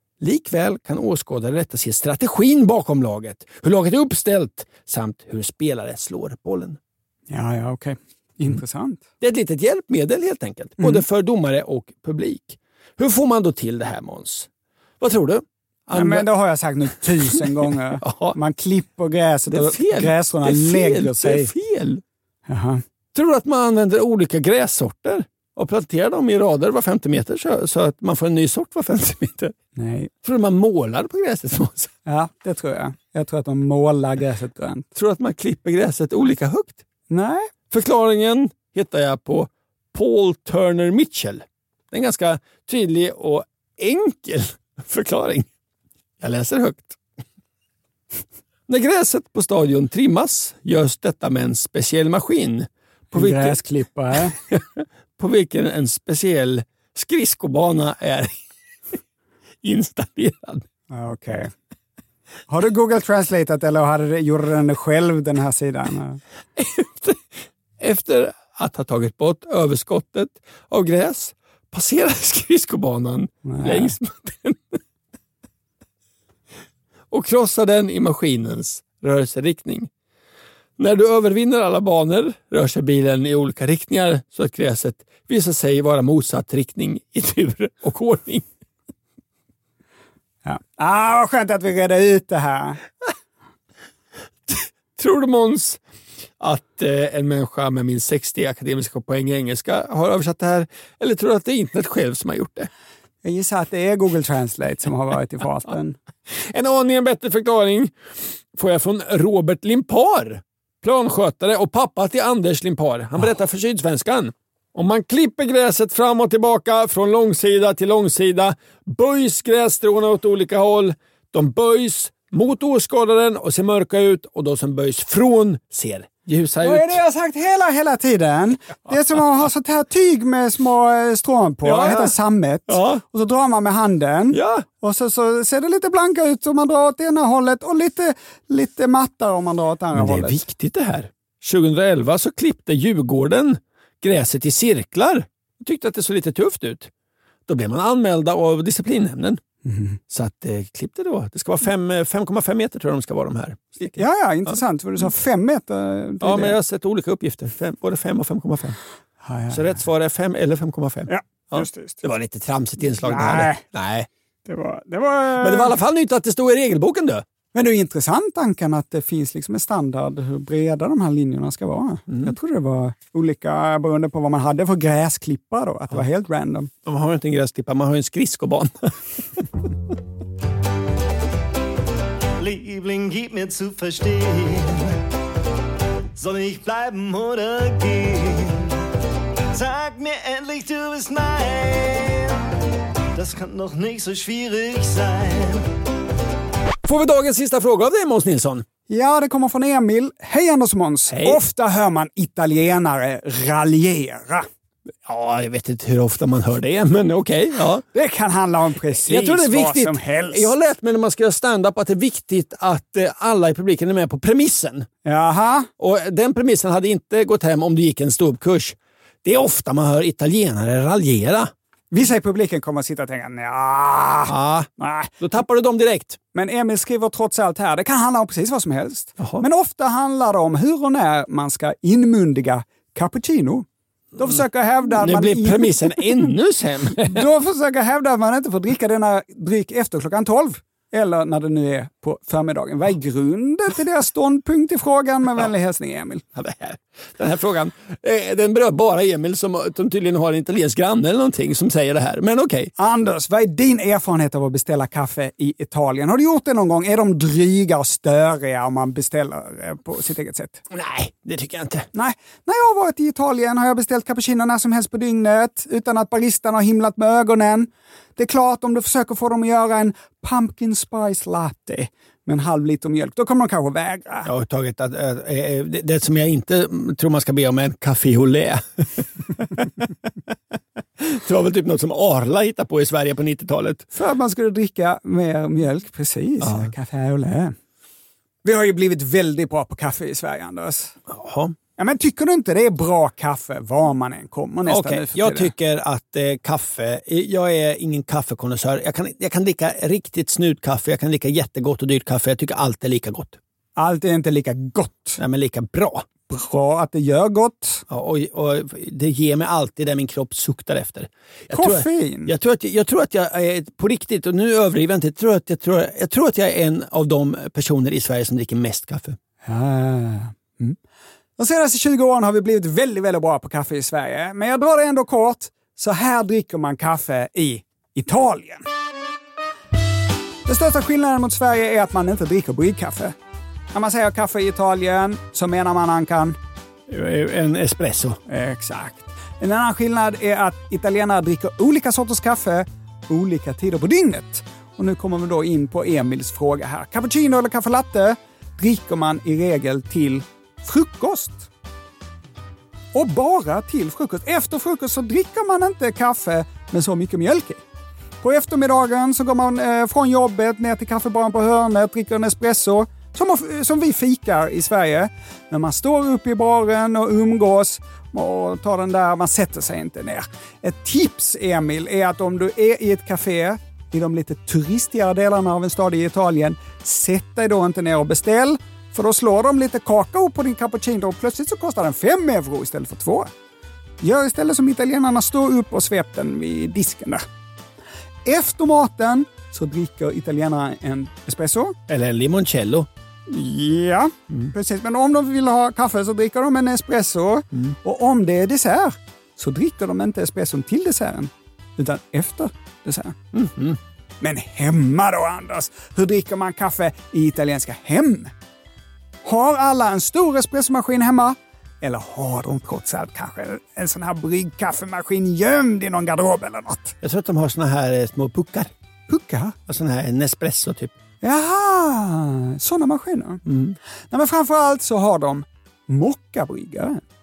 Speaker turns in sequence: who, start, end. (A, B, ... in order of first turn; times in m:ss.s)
0:00.2-0:06.8 A
0:07.3-0:09.0 B
0:09.2-0:14.5 A
0:10.8-0:11.0 B
0:15.0-0:16.3 A
0:15.9-0:21.5 B
0:17.2-0:18.4 A
0:19.5-0:22.0 A
0:22.5-0:22.8 B
0:23.1-0:29.6 A
0:29.8-0:30.1 B
0:30.2-0:31.9 A
0:32.0-0:34.9 B
0:34.9-0:36.8 A
0:37.1-0:37.5 B
0:37.7-0:45.5 A
0:46.2-0:47.0 A
0:48.7-0:53.6 A
0:53.1-0:54.4 B
0:54.4-0:58.3 A
0:59.6-1:00.6 A
1:00.9-1:01.5 B
1:02.5-1:06.2 B
1:06.6-1:07.3 A
1:07.8-1:14.8 A
1:13.4-1:14.0 B
1:17.1-1:19.9 A
1:20.8-1:28.4 A
1:30.4-1:32.8 B
1:34.5-1:35.8 A
1:36.4-1:42.7 A
1:43.2-1:46.0 B
1:46.3-1:47.9 A
1:48.5-2:07.0 A
2:06.6-2:20.4 B
2:11.6-2:12.2 A
2:12.7-2:13.0 A
2:14.3-2:14.6 A
2:19.9-2:26.9 A
2:27.5-2:29.4 A
2:29.6-2:30.0 B
2:30.1-2:34.0 A
2:33.9-2:36.6 B
2:36.2-2:38.8 A
2:39.2-2:39.8 B
2:39.5-2:44.1 A
2:41.1-2:42.0 B
2:43.0-2:43.6 B
2:44.4-2:45.8 B
2:45.4-2:47.2 A
2:47.5-2:56.7 B
2:52.1-2:52.3 A
2:56.8-2:59.4 A
3:02.4-3:05.0 C
3:06.2-3:08.7 C
3:09.5-3:12.4 C
3:13.1-3:15.6 C
3:16.8-3:18.6 A
3:18.9-3:24.5 B
3:21.1-3:21.4 A
3:25.0-3:27.8 A
3:27.9-3:30.5 B
3:29.0-3:34.9 A
3:35.0-3:35.7 B
3:35.8-3:41.5 A
3:41.9-3:45.1 B
3:44.3-3:46.2 A
3:46.3-3:56.3 B
3:49.2-3:49.4 A
3:54.2-3:57.2 A
3:57.0-4:06.2 B
4:06.3-4:12.7 A
4:12.8-4:20.6 B
4:20.7-4:21.9 A
4:21.9-4:34.3 B
4:34.2-4:39.1 A
4:41.0-4:43.9 A
4:43.9-4:47.6 B
4:46.4-4:46.7 A
4:48.4-4:51.0 B
4:51.1-4:51.5 A
4:51.8-4:55.5 B
4:54.7-5:03.4 A
5:03.8-5:05.2 B
5:05.2-5:06.0 A
5:06.3-5:07.8 B
5:07.9-5:19.2 A
5:11.5-5:12.3 B
5:19.4-5:20.8 B
5:21.4-5:28.6 B
5:30.4-5:33.1 B
5:33.7-5:36.4 B
5:36.9-5:38.2 A
5:38.3-5:51.5 B
5:52.9-5:57.6 B
5:58.2-6:23.3 B
6:24.0-6:27.2 B
6:28.2-6:31.8 B
6:31.9-6:32.9 A
6:33.3-6:43.1 B
6:43.3-6:43.8 A
6:44.2-6:48.3 B
6:49.2-6:56.9 B
6:57.0-6:58.7 A
6:59.1-6:59.6 B
6:59.7-7:00.9 A
7:01.2-7:03.4 B
7:03.4-7:03.7 A
7:04.1-7:07.0 B